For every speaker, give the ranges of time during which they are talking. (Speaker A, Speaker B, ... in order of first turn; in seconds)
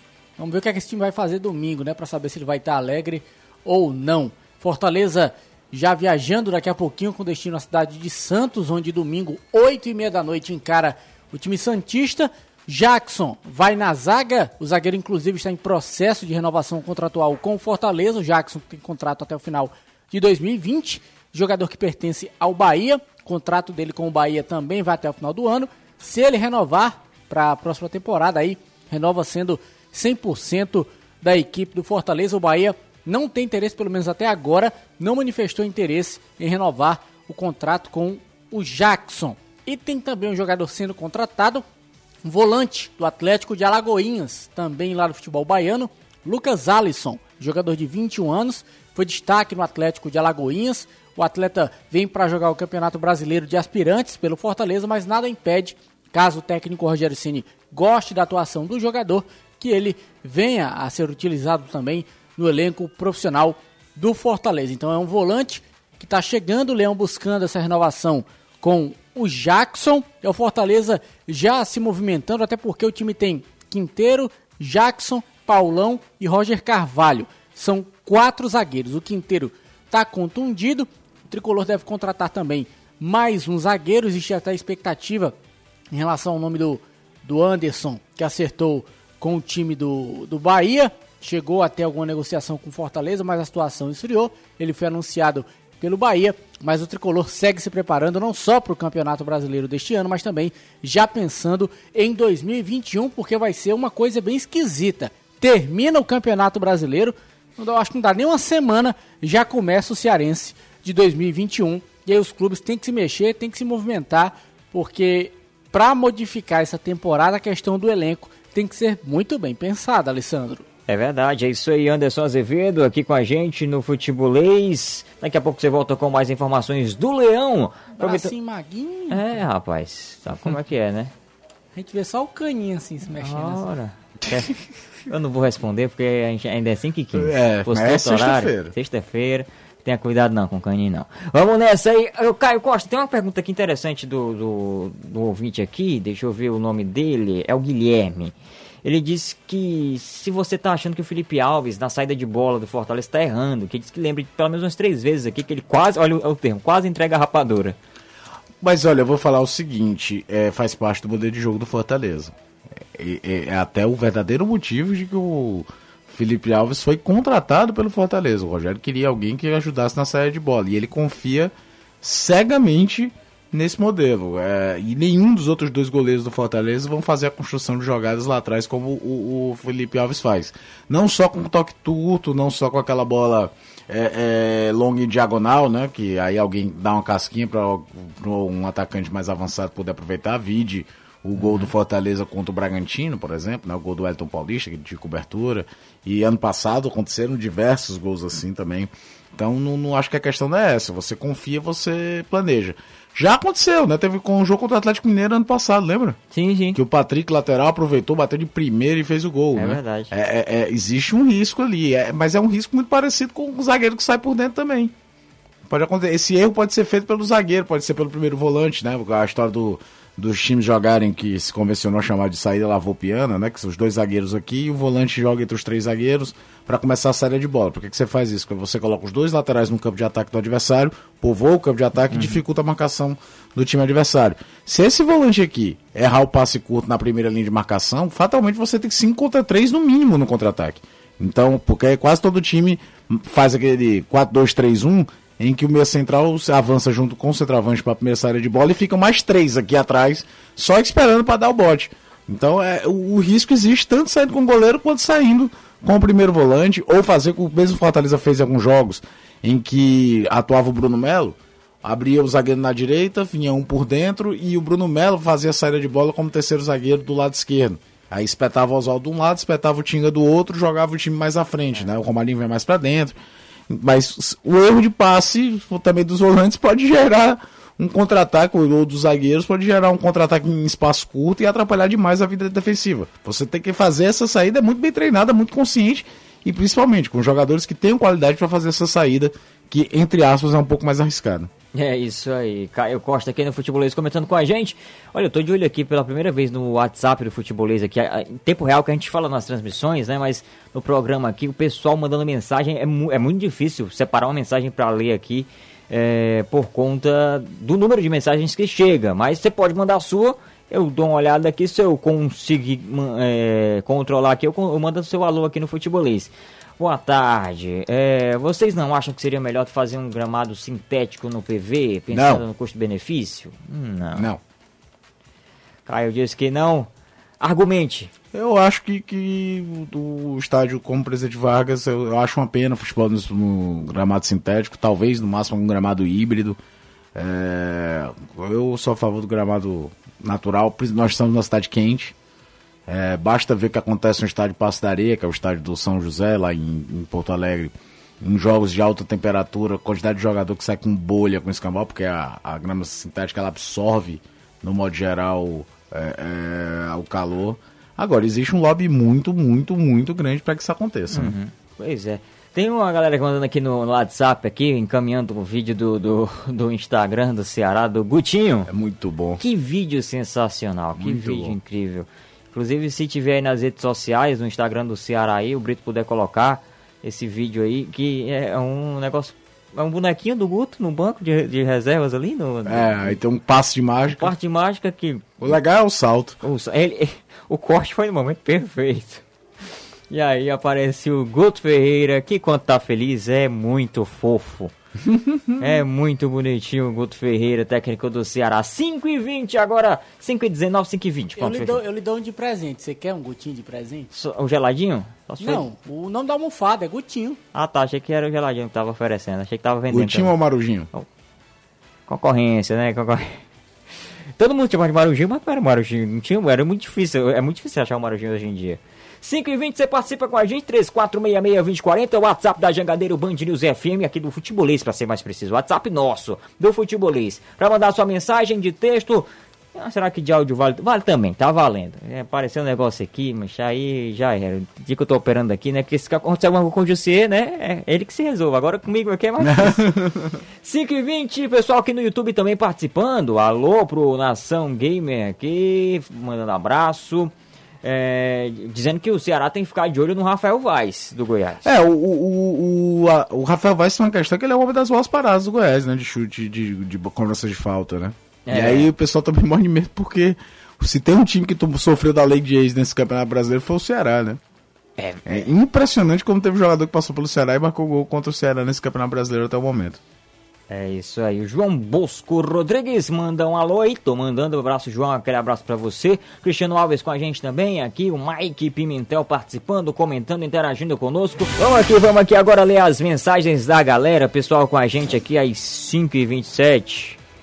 Speaker A: 0.4-41.6, 42.2-85.4, 85.9-120.6, 128.0-129.3, 131.8-133.7, 401.4-404.1, 405.4-407.4
Speaker B: 120.9-128.3, 129.1-131.1, 133.2-134.5, 135.1-157.8, 191.4-191.7, 206.3-206.8, 209.6-210.1, 232.1-232.4, 291.7-324.3, 325.9-326.9, 327.4-328.1, 361.1-368.7, 369.4-383.2, 384.1-385.3, 386.4-389.2, 390.1-394.7, 395.6-401.8, 404.1-405.6, 407.5-410.4, 412.1-413.4, 414.4-439.9, 440.6-451.7, 458.5-458.9, 465.0-465.4, 470.7-487.2
Speaker C: 137.2-138.7, 158.6-162.3, 162.9-206.2, 206.7-214.9, 215.7-273.2, 273.7-291.5, 322.1-322.4, 324.1-324.4, 328.3-336.6, 337.1-342.1, 342.9-361.4, 368.7-369.4, 370.9-371.6, 382.7-384.3, 385.4-386.4, 409.9-410.9, 439.4-440.4, 451.6-464.4, 465.2-470.0